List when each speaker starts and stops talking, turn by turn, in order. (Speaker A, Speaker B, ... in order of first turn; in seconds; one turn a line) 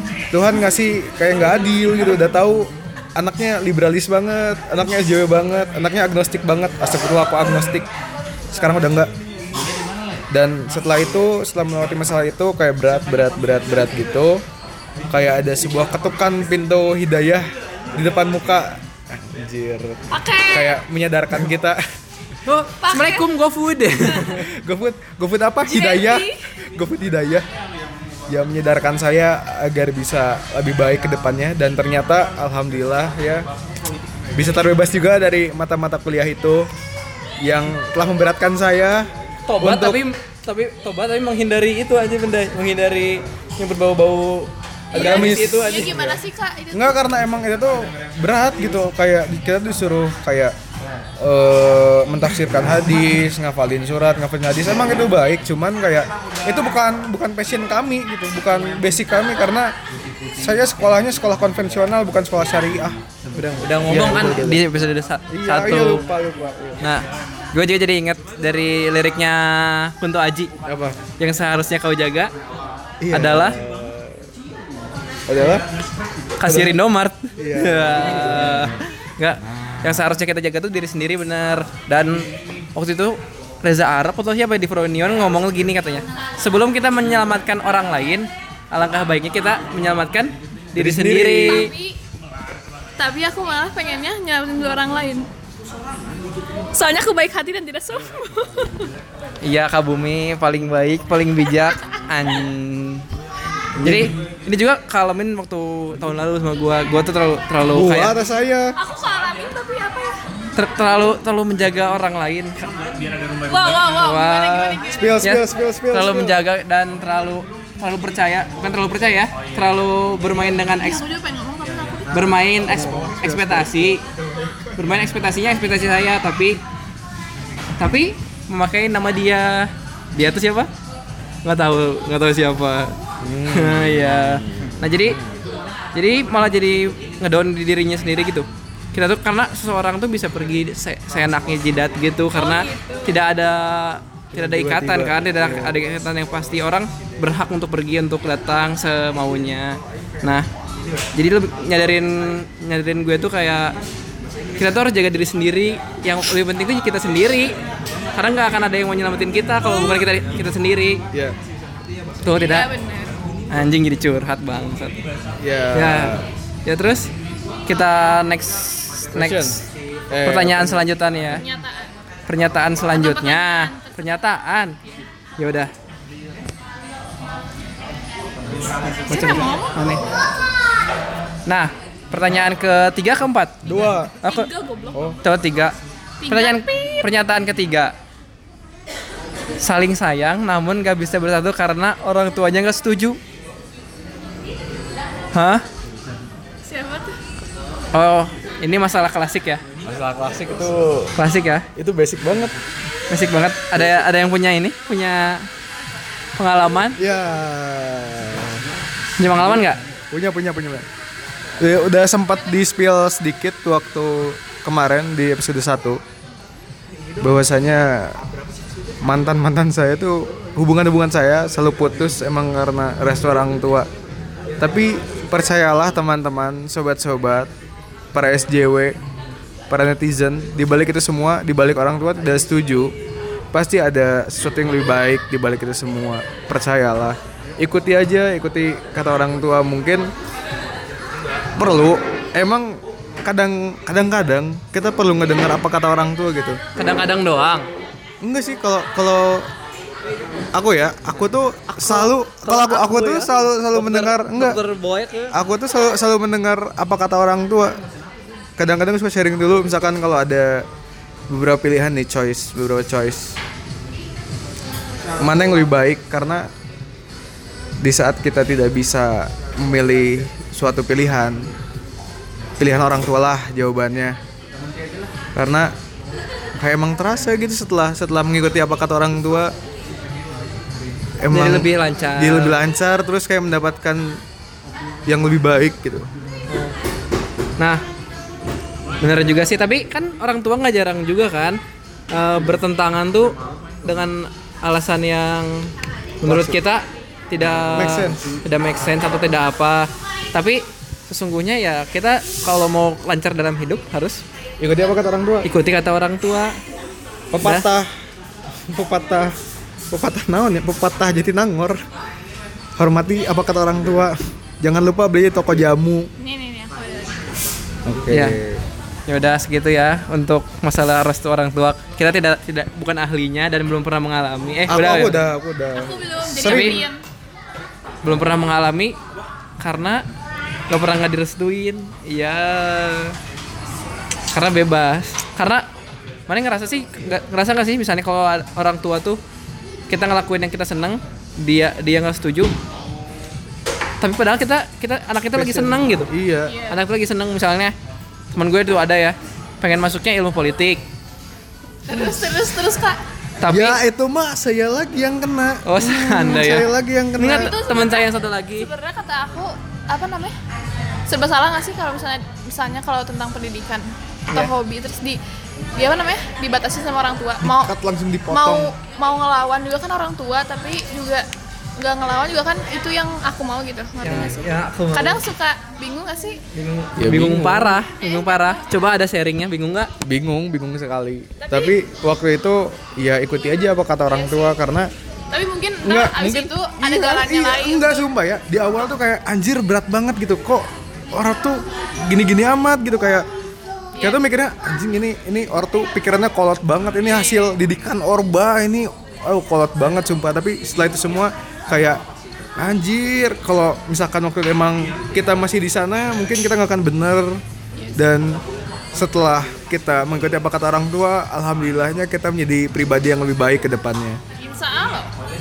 Speaker A: 0.3-7.9
Speaker A: 8.5-9.1
Speaker A: 10.3-14.4
Speaker A: 15.1-21.8
Speaker B: 20.1-20.8
Speaker C: 22.4-24.5
Speaker B: 22.8-23.2
Speaker A: 24.2-27.5
Speaker B: 25.6-26.4
Speaker A: 28.3-33.5
Speaker A: 34.3-36.7
Speaker A: 37.4-39.1
Speaker C: 39.5-45.9
Speaker A: 39.6-40.0
Speaker B: 44.9-47.1
Speaker A: 44.9-50.5
Speaker A: 51.2-59.7
Speaker A: 60.4-63.0
Speaker C: 63.3-66.0
Speaker A: 63.9-64.7
Speaker A: 65.3-66.8
Speaker C: 66.8-70.5
Speaker A: 70.6-71.0
Speaker C: 71.2-72.3
Speaker A: 73.0-74.2
Speaker C: 73.1-73.6
Speaker A: 75.3-75.6
Speaker C: 76.4-91.7
Speaker A: 76.4-76.8
Speaker A: 77.4-78.7
Speaker A: 90.7-91.7
Speaker B: 91.4-92.0
Speaker B: 93.0-95.3
Speaker B: 96.7-98.9
Speaker C: 99.4-103.0
Speaker A: 103.8-104.1
Speaker C: 103.8-108.1
Speaker A: 107.7-108.7
Speaker B: 108.8-110.2
Speaker C: 110.5-113.0
Speaker B: 113.5-115.1
Speaker C: 113.8-121.0
Speaker A: 114.9-116.3
Speaker B: 120.6-122.3
Speaker C: 122.1-124.0
Speaker A: 122.7-123.7
Speaker C: 124.8-126.6
Speaker C: 127.8-130.7
Speaker C: 131.4-132.9
Speaker A: 133.2-135.3
Speaker C: 133.5-135.2
Speaker C: 135.9-150.4
Speaker B: 142.3-143.1
Speaker A: 144.3-145.7
Speaker C: 151.1-153.7
Speaker C: 154.6-157.6
Speaker C: 158.2-161.0
Speaker B: 159.6-160.0
Speaker C: 162.2-162.7
Speaker B: 162.3-163.1
Speaker C: 163.5-165.0
Speaker A: 165.4-166.2
Speaker C: 165.7-167.1
Speaker C: 167.7-169.6
Speaker A: 169.1-170.8
Speaker C: 170.2-171.4
Speaker B: 171.3-171.9
Speaker C: 172.3-174.8
Speaker B: 172.9-174.2
Speaker C: 175.4-175.7
Speaker C: 179.1-180.0
Speaker B: 179.1-179.7
Speaker C: 181.4-184.5
Speaker A: 183.6-184.1
Speaker B: 184.2-185.0
Speaker C: 185.2-185.7
Speaker B: 186.2-187.1
Speaker C: 186.3-187.9
Speaker C: 189.6-193.2
Speaker C: 195.3-195.6
Speaker B: 196.6-197.2
Speaker C: 197.9-199.6
Speaker A: 199.8-201.1
Speaker C: 201.2-201.7
Speaker A: 201.8-202.5
Speaker C: 203.1-205.5
Speaker C: 206.3-207.0
Speaker A: 207.0-208.6
Speaker C: 209.2-209.8
Speaker A: 210.1-210.8
Speaker A: 211.6-216.0
Speaker A: 217.2-218.2
Speaker A: 219.0-223.9
Speaker A: 224.6-227.5
Speaker A: 228.1-229.0
Speaker A: 229.7-232.9
Speaker A: 233.5-240.1
Speaker A: 241.6-246.6
Speaker C: 246.8-247.7
Speaker A: 248.2-249.5
Speaker A: 250.5-254.6
Speaker C: 251.7-255.3
Speaker A: 255.3-257.8
Speaker A: 258.6-260.6
Speaker A: 261.3-263.4
Speaker A: 265.2-266.5
Speaker A: 267.8-271.5
Speaker A: 272.6-274.2
Speaker A: 275.3-275.7
Speaker A: 276.6-279.5
Speaker A: 281.2-284.2
Speaker C: 281.3-282.6
Speaker A: 285.1-286.1
Speaker C: 286.5-286.7
Speaker C: 289.0-291.6
Speaker C: 292.1-304.2
Speaker A: 296.2-296.6
Speaker A: 297.6-298.2
Speaker A: 304.6-305.5
Speaker C: 305.4-306.5
Speaker A: 307.3-307.9
Speaker A: 308.7-309.3
Speaker A: 309.9-311.8
Speaker A: 312.8-316.1
Speaker B: 316.2-317.3
Speaker A: 317.9-318.6
Speaker C: 318.1-318.4
Speaker C: 319.1-325.2
Speaker A: 324.7-326.9
Speaker B: 325.7-327.0
Speaker C: 326.4-326.8
Speaker C: 328.0-329.0
Speaker C: 329.6-330.0
Speaker C: 330.7-333.1
Speaker C: 334.3-335.7
Speaker C: 336.3-339.2
Speaker C: 339.9-342.5
Speaker C: 344.0-346.1
Speaker A: 345.3-346.6
Speaker B: 346.4-346.8
Speaker C: 346.7-347.7
Speaker C: 348.3-350.8
Speaker B: 351.9-353.0
Speaker C: 353.4-353.8
Speaker A: 353.4-357.6
Speaker C: 355.6-358.7
Speaker B: 357.2-360.3
Speaker B: 361.1-365.2
Speaker B: 365.8-367.7
Speaker A: 367.4-368.7
Speaker B: 368.3-371.3
Speaker B: 371.8-376.4
Speaker C: 374.0-375.2
Speaker C: 376.5-379.9
Speaker A: 377.0-377.8
Speaker B: 377.9-378.6
Speaker A: 380.0-384.9
Speaker B: 381.4-381.8
Speaker B: 384.1-384.6
Speaker B: 385.3-388.1
Speaker A: 385.8-393.3
Speaker B: 393.9-394.2
Speaker A: 394.0-402.0
Speaker B: 397.1-397.5
Speaker A: 402.6-407.4
Speaker B: 407.8-408.1
Speaker A: 407.9-408.4
Speaker A: 408.9-414.2
Speaker B: 414.4-415.1